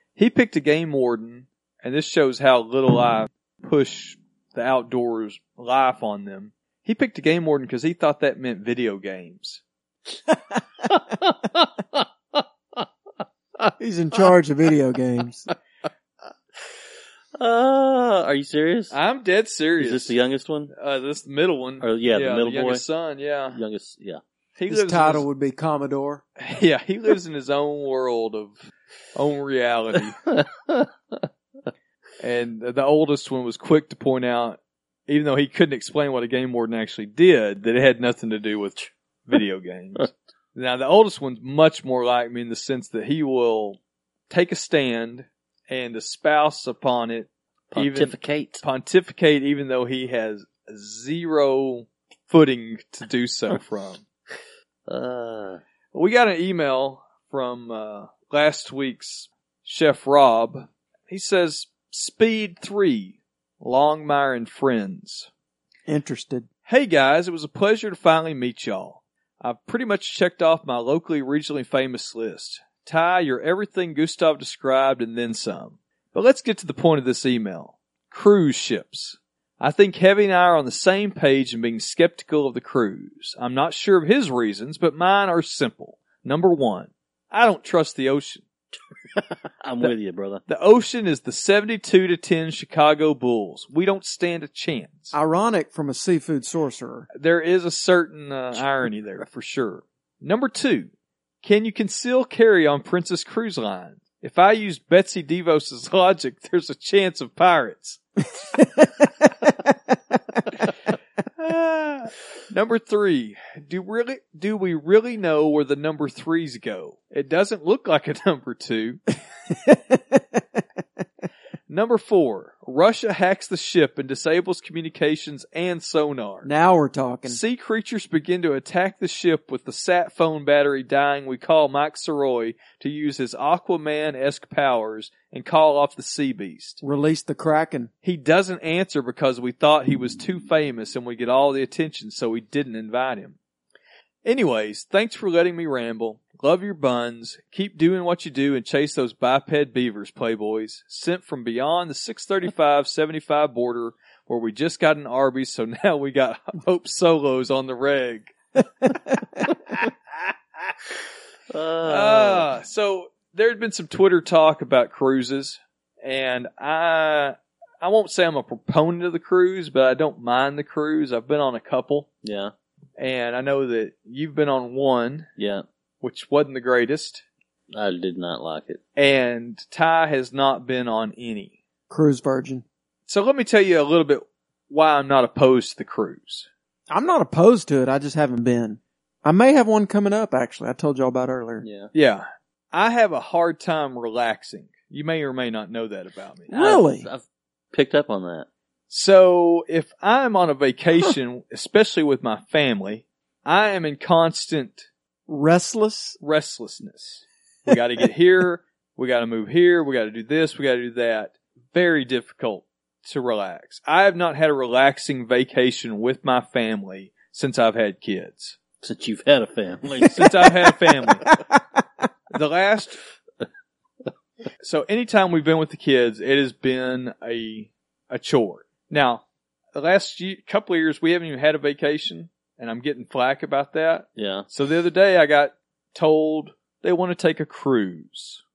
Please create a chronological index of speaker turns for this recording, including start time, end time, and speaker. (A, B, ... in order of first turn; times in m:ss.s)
0:00.2-0:09.6 A
0:10.9-0:12.8 B
0:13.6-0:14.3 B
0:13.8-0:15.5 C
0:17.4-0:19.0 B
0:18.9-0:20.2 A
0:19.8-0:20.7 B
0:20.7-0:23.6 A
0:21.8-0:22.8 B
0:23.5-0:24.2 B
0:24.6-0:25.2 A
0:24.7-0:26.2 C
0:26.4-0:30.2 A
0:30.3-0:31.2 B
0:32.2-0:54.0 A
0:47.7-0:48.6 B
0:54.9-0:55.6 B
0:55.9-1:05.3 A
1:05.9-1:06.5 C
1:06.7-1:28.4 A
1:29.2-1:30.4 B
1:30.5-1:35.1 A
1:35.1-1:37.1 C
1:37.1-1:40.9 A
1:41.4-1:48.0 A
1:48.5-1:49.7 C
1:51.4-1:59.0 A
1:59.5-2:00.6 C
2:01.7-2:06.5 A
2:06.4-2:07.4 C
2:07.3-2:16.8 A
2:16.8-2:17.9 C
2:18.0-2:23.4 A
2:24.2-2:38.3 A
2:38.8-2:39.4 C
2:41.5-2:42.5 B
2:41.9-2:52.1 A
2:52.2-2:52.5 B
2:53.0-2:55.3 A
2:55.4-2:55.6 B
2:56.0-2:57.2 A
2:57.7-2:58.8 B
2:59.0-3:01.6 A
3:01.9-3:02.6 C
3:03.1-3:06.5 A
3:06.9-3:11.6 C
3:11.6-3:11.9 B
3:11.9-3:16.5 A
3:16.5-3:17.1 C
3:16.5-3:18.5 B
3:18.9-3:24.9 A
3:25.3-3:26.2 C
3:26.2-3:38.6 A
3:38.8-3:40.6 B
3:40.1-3:41.2 A
3:41.3-3:41.8 C
3:42.3-3:43.0 A
3:44.6-3:49.2 A
3:49.8-3:58.4 A
3:54.2-3:54.5 B